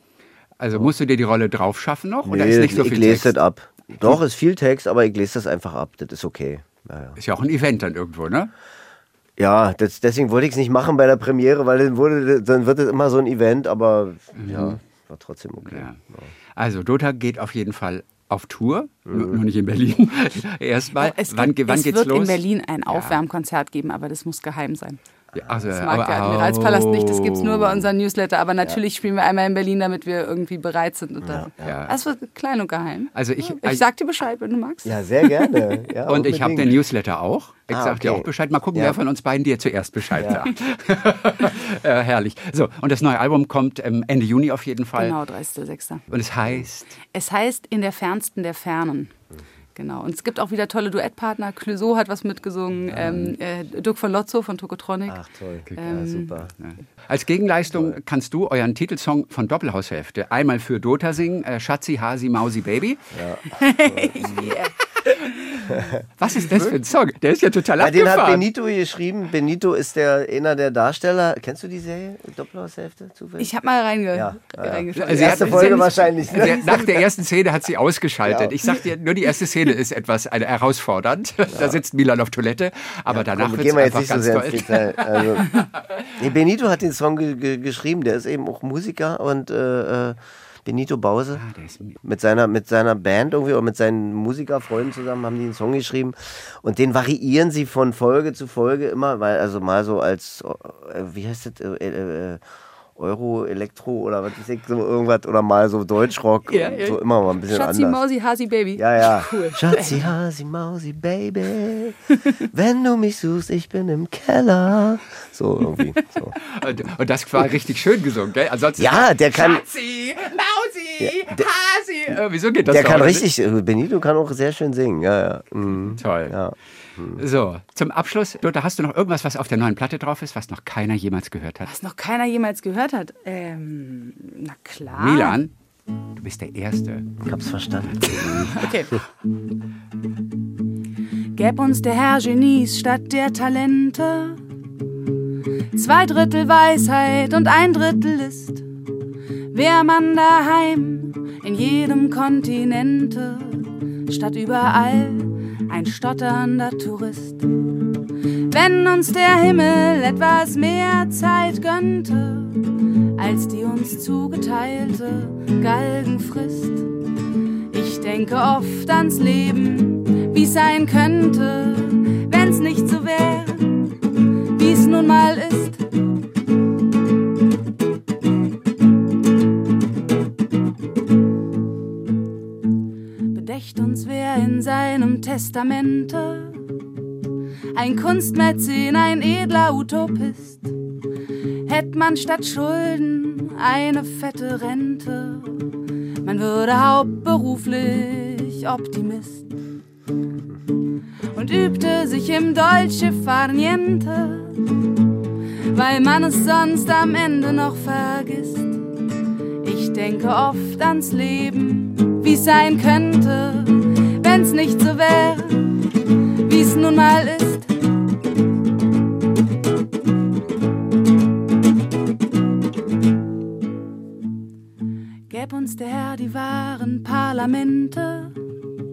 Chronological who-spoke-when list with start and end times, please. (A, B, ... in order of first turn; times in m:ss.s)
0:00.6-0:03.4 A
0:02.2-0:07.2 B
0:07.2-0:08.5 A
0:09.4-0:16.3 B
0:14.4-0:14.8 A
0:15.6-0:16.0 A
0:16.6-0:23.2 A
0:19.0-0:19.4 B
0:21.0-0:25.0 C
0:25.3-0:27.8 A
0:25.6-0:35.7 C
0:31.2-0:31.8 B
0:31.6-0:31.9 A
0:33.1-0:33.8 A
0:34.8-0:36.8 B
0:36.0-0:45.2 A
0:37.7-0:39.0 B
0:40.1-0:40.5 B
0:45.0-0:46.0 C
0:46.1-0:46.9 A
0:47.0-0:49.1 C
0:49.7-0:55.2 C
0:52.9-0:53.3 B
0:55.1-0:56.5 B
0:55.7-0:56.0 A
0:55.8-0:56.4 C
0:56.6-1:03.1 A
0:57.7-0:58.0 B
1:03.1-1:04.5 B
1:03.4-1:05.8 C
1:05.6-1:06.0 B
1:06.2-1:08.4 A
1:07.8-1:13.5 B
1:13.4-1:17.0 C
1:14.1-1:16.8 B
1:14.9-1:25.6 A
1:18.2-1:18.5 B
1:21.5-1:21.8 B
1:23.1-1:25.6 B
1:26.2-1:31.4 B
1:31.4-1:32.0 A
1:32.0-1:42.4 B
1:43.0-1:48.0 B
1:46.5-1:50.0 C
1:48.8-1:56.4 B
1:56.4-2:03.3 A
1:58.8-1:59.6 B
2:01.0-2:01.4 B
2:02.7-2:07.2 B
2:05.9-2:06.4 A
2:07.1-2:11.7 A
2:11.6-2:15.4 C
2:14.9-2:15.5 A
2:16.1-2:17.2 A
2:17.2-2:18.6 B
2:17.8-2:18.7 A
2:18.3-2:19.0 C
2:21.3-2:24.4 C
2:25.7-2:28.6 C
2:29.5-2:37.5 C
2:38.5-2:46.9 C
2:47.7-2:53.9 C
2:54.5-2:55.8 C
3:03.3-3:06.7 C
3:07.7-3:10.7 C
3:11.6-3:19.5 C
3:21.3-3:24.6 C
3:25.7-3:28.8 C
3:29.6-3:35.8 C
3:36.4-3:37.7 C
3:45.3-3:48.4 C